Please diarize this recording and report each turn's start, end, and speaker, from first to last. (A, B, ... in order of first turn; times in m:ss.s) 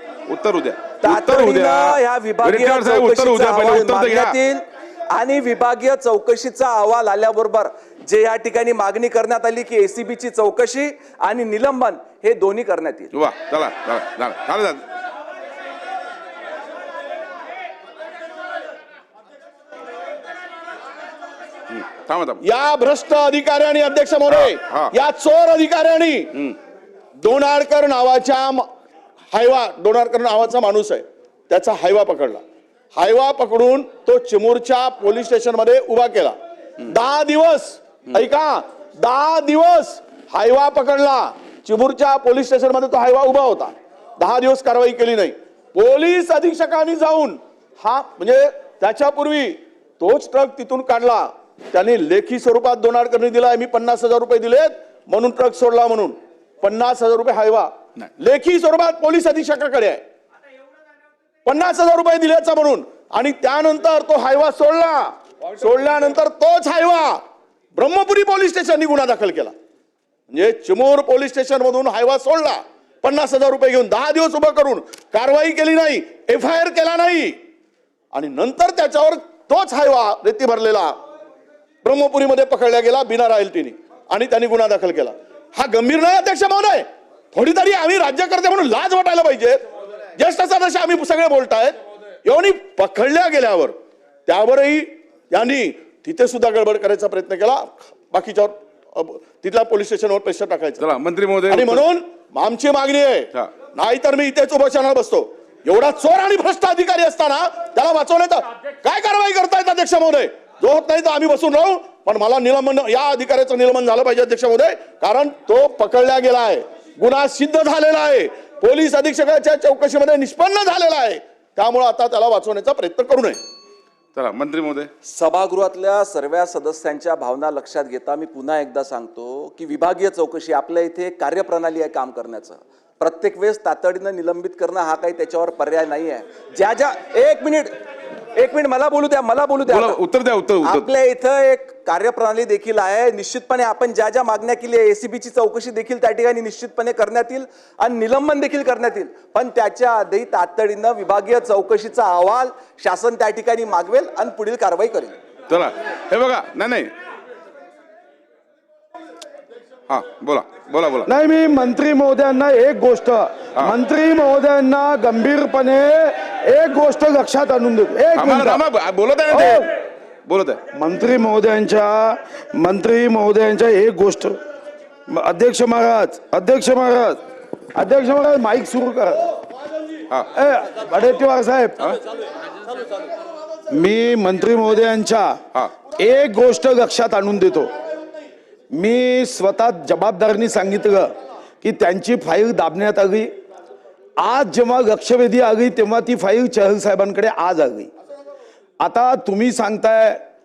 0:00.3-0:04.3 A
0:01.0-0:13.1 B
0:13.1-0:14.8 A
0:21.7-0:22.4 A
0:22.4-0:26.4 C
0:24.3-0:24.9 A
0:27.2-0:28.6 C
0:29.3-0:32.4 C
0:32.9-1:00.0 C
1:01.4-1:07.2 C
1:07.7-1:09.5 C
1:10.3-1:17.4 C
1:18.1-1:21.0 C
1:21.8-1:29.6 C
1:30.2-1:33.7 C
1:34.3-1:40.9 C
1:40.8-1:41.8 A
1:41.5-2:03.4 C
2:04.1-2:04.9 A
2:05.0-2:17.7 B
2:18.3-2:20.0 B
2:19.7-2:20.9 A
2:20.6-2:35.1 B
2:35.5-2:36.9 A
2:39.9-2:41.1 A
2:41.0-2:48.6 D
2:48.2-2:49.7 A
2:49.3-2:49.7 D
2:50.2-2:50.6 A
2:50.7-2:54.4 D
2:55.1-2:57.2 D
2:57.7-2:59.3 D
3:00.3-3:01.9 D
3:03.7-3:07.7 D
3:08.7-3:13.3 D
3:14.2-3:17.9 D
3:18.8-3:20.2 D